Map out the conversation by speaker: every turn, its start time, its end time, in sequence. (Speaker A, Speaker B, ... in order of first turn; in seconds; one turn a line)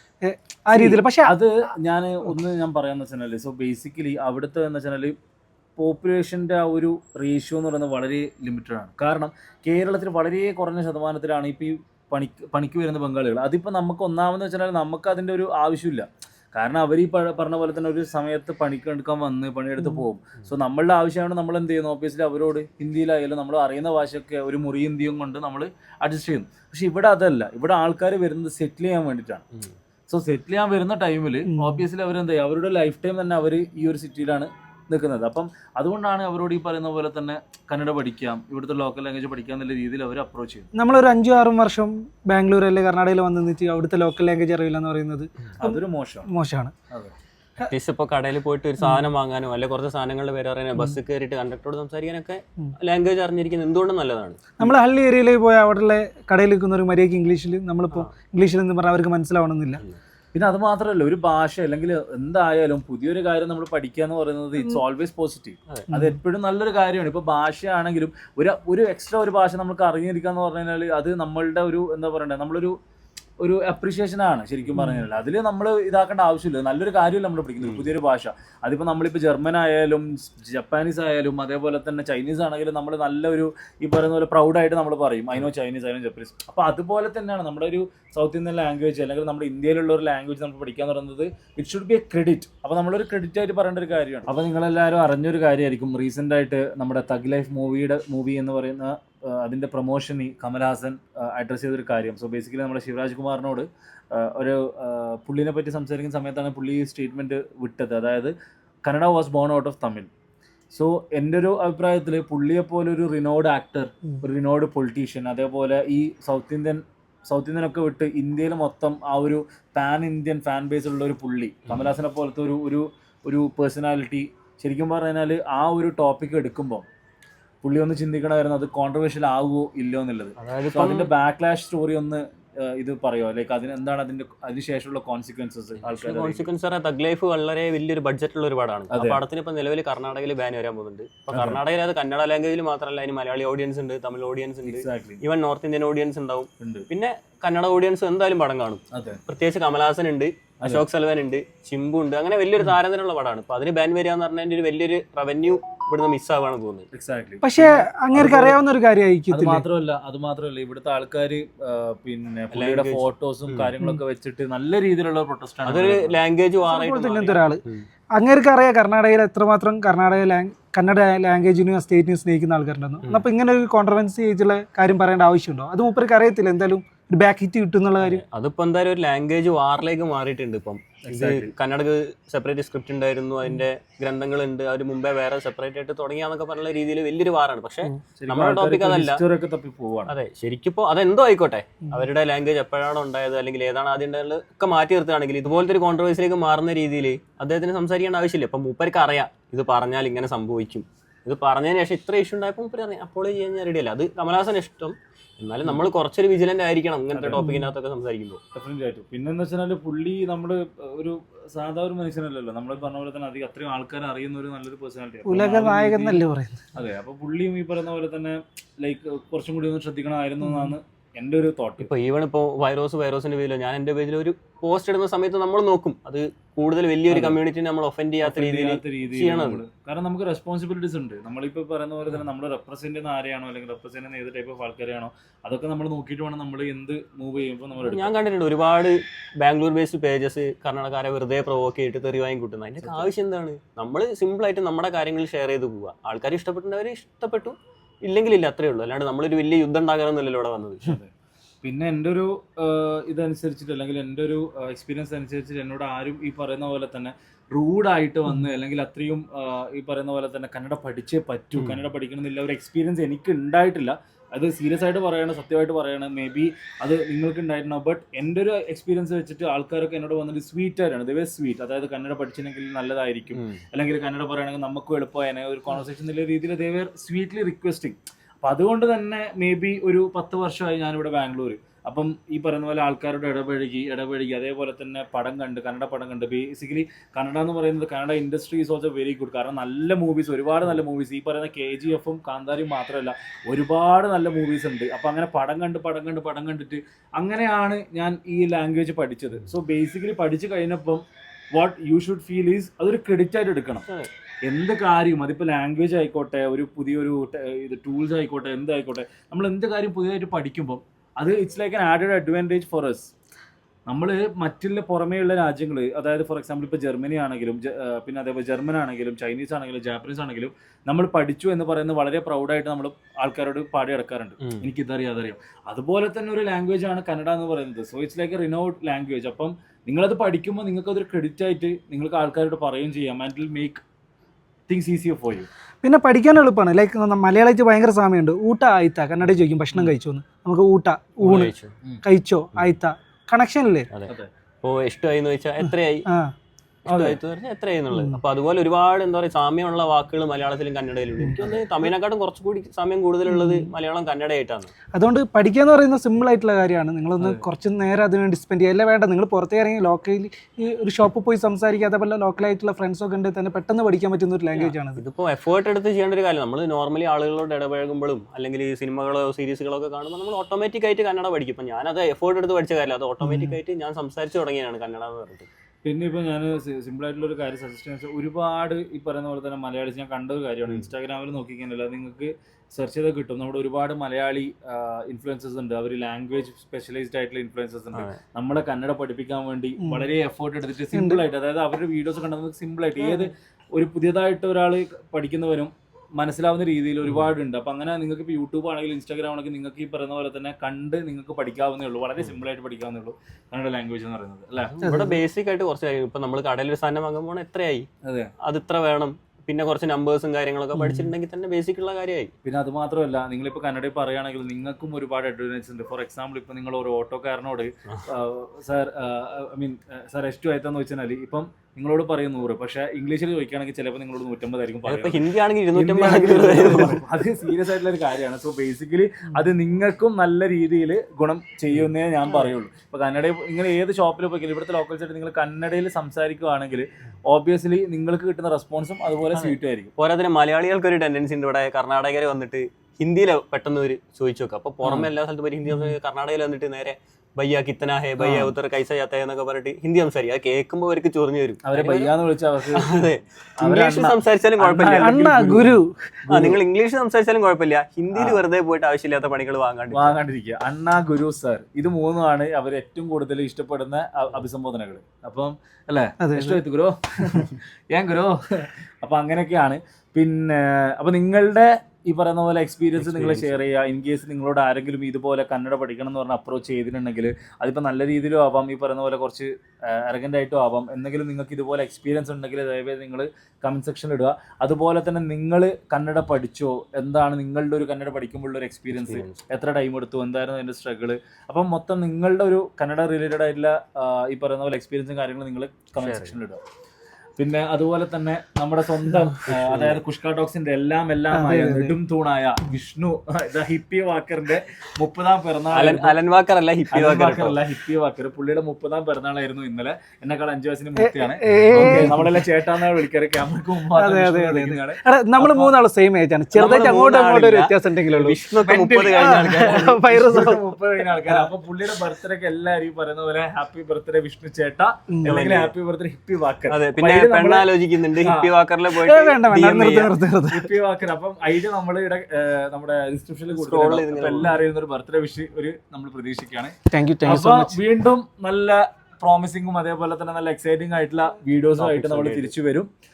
Speaker A: 0.2-1.4
Speaker B: 0.7-5.2
Speaker B: 5.8-29.4
Speaker B: 30.1-40.7
Speaker A: 31.5-31.9
Speaker A: 40.8-46.7
Speaker B: 45.6-46.3
Speaker C: 47.7-54.6
Speaker A: 48.8-49.1
Speaker A: 54.6-59.8
Speaker B: 60.3-72.8
Speaker A: 65.9-66.2
Speaker B: 73.4-108.3
Speaker A: 74.8-75.1
Speaker C: 77.6-77.9
Speaker B: 108.8-110.1
Speaker B: 110.7-126.9
Speaker B: 127.6-136.5
Speaker C: 130.4-131.1
Speaker C: 135.8-156.9
Speaker B: 138.9-139.2
Speaker B: 141.3-141.6
Speaker B: 144.7-145.2
Speaker B: 146.6-146.9
Speaker B: 148.9-149.2
Speaker B: 156.9-158.6
Speaker A: 157.4-159.6
Speaker B: 159.3-166.2
Speaker C: 162.5-163.7
Speaker C: 165.7-167.9
Speaker A: 166.6-167.6
Speaker A: 168.2-178.2
Speaker C: 178.0-189.2
Speaker B: 181.0-181.5
Speaker B: 188.2-190.1
Speaker C: 190.1-208.4
Speaker B: 207.1-207.5
Speaker A: 207.3-207.7
Speaker B: 208.5-216.2
Speaker A: 215.3-216.6
Speaker B: 216.8-221.9
Speaker A: 220.4-220.7
Speaker C: 221.8-229.6
Speaker B: 227.1-227.4
Speaker B: 228.2-238.1
Speaker C: 237.8-250.9
Speaker B: 242.8-243.1
Speaker B: 251.6-301.0
Speaker C: 273.3-273.6
Speaker B: 301.6-303.9
Speaker B: 304.5-313.1
Speaker B: 313.9-333.8
Speaker B: 334.7-335.5
Speaker A: 335.8-341.5
Speaker C: 339.2-340.0
Speaker C: 341.2-341.7
Speaker A: 342.0-343.9
Speaker C: 344.6-346.1
Speaker A: 346.1-346.3
Speaker C: 346.9-354.7
Speaker B: 346.9-347.2
Speaker A: 347.9-348.2
Speaker A: 353.3-353.7
Speaker A: 354.9-365.0
Speaker C: 364.5-375.5
Speaker A: 373.2-373.6
Speaker B: 375.8-404.9
Speaker A: 389.8-390.1
Speaker A: 390.9-391.2
Speaker C: 404.8-407.9
Speaker A: 404.8-405.2
Speaker B: 408.1-408.3
Speaker C: 408.4-412.3
Speaker A: 410.8-411.1
Speaker B: 412.4-439.9
Speaker C: 424.9-427.0
Speaker C: 431.7-432.5
Speaker C: 439.3-452.1
Speaker B: 444.8-445.1
Speaker B: 448.2-448.6
Speaker B: 451.6-452.9
Speaker C: 452.8-455.6
Speaker B: 453.6-456.6
Speaker A: 455.0-456.2
Speaker C: 456.3-460.2
Speaker B: 458.1-458.4
Speaker B: 459.9-496.6
Speaker A: 466.2-466.6
Speaker C: 473.0-473.6
Speaker C: 488.9-489.4
Speaker C: 496.0-496.4
Speaker B: 497.4-506.2
Speaker C: 499.4-500.0
Speaker A: 501.3-502.0
Speaker C: 505.7-507.6
Speaker B: 506.9-515.8
Speaker A: 511.0-512.3
Speaker C: 511.8-512.1
Speaker A: 514.0-518.5
Speaker C: 516.5-520.1
Speaker B: 518.7-527.7
Speaker A: 519.0-521.5
Speaker A: 525.1-525.4
Speaker C: 525.2-525.7
Speaker C: 526.7-530.1
Speaker B: 528.2-528.5
Speaker A: 528.9-530.7
Speaker B: 530.5-542.9
Speaker C: 533.5-534.6
Speaker A: 536.9-537.8
Speaker C: 541.8-542.5